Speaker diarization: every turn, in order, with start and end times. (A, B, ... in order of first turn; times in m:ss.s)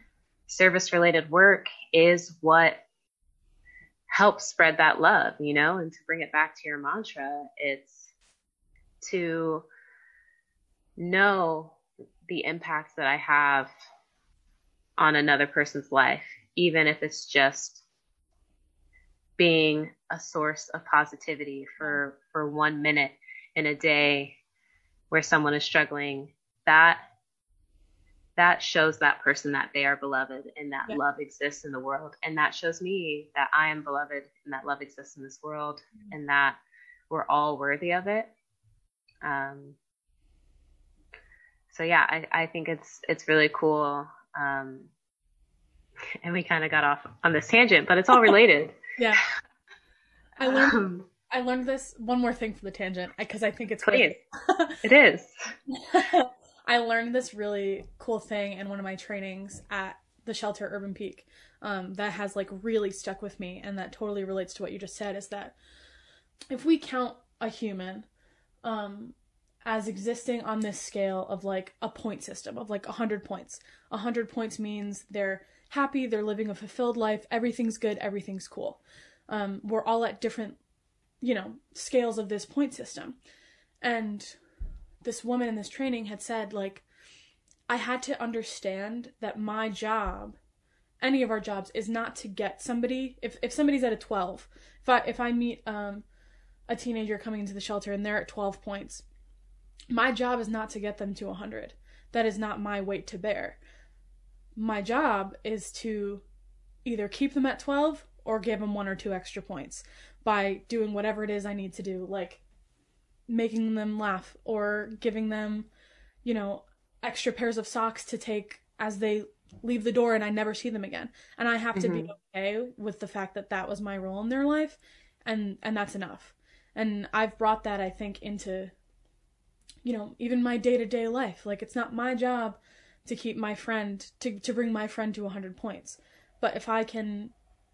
0:00.5-0:02.8 A
0:04.1-0:08.1 A
0:09.0-0:09.6 A
0:11.0-0:13.7 A
0:15.0-0:17.8 A
0:19.4-0:24.4 A
0:25.1-0:27.0 A
0:28.4-0:36.6 A
0:37.1-0:38.3 A
0:39.2-0:39.8 A
0:41.7-0:44.9 A
0:46.2-0:48.8 A
0:49.0-0:49.2 B
0:50.4-0:54.8 B
0:50.4-0:51.0 A
0:53.8-0:54.2 A
0:54.8-0:55.5 A
0:55.7-1:05.5 B
1:06.5-1:08.0 B
1:08.6-1:20.6 B
1:21.2-1:23.2 B
1:23.8-1:24.4 B
1:25.0-1:26.8 B
1:27.7-1:30.4 B
1:31.0-1:36.0 B
1:36.7-1:39.0 B
1:39.9-1:43.6 B
1:44.6-1:46.2 B
1:46.8-1:52.4 B
1:53.3-1:55.7 B
1:56.2-2:08.7 B
2:01.7-2:02.1 A
2:09.8-2:17.3 B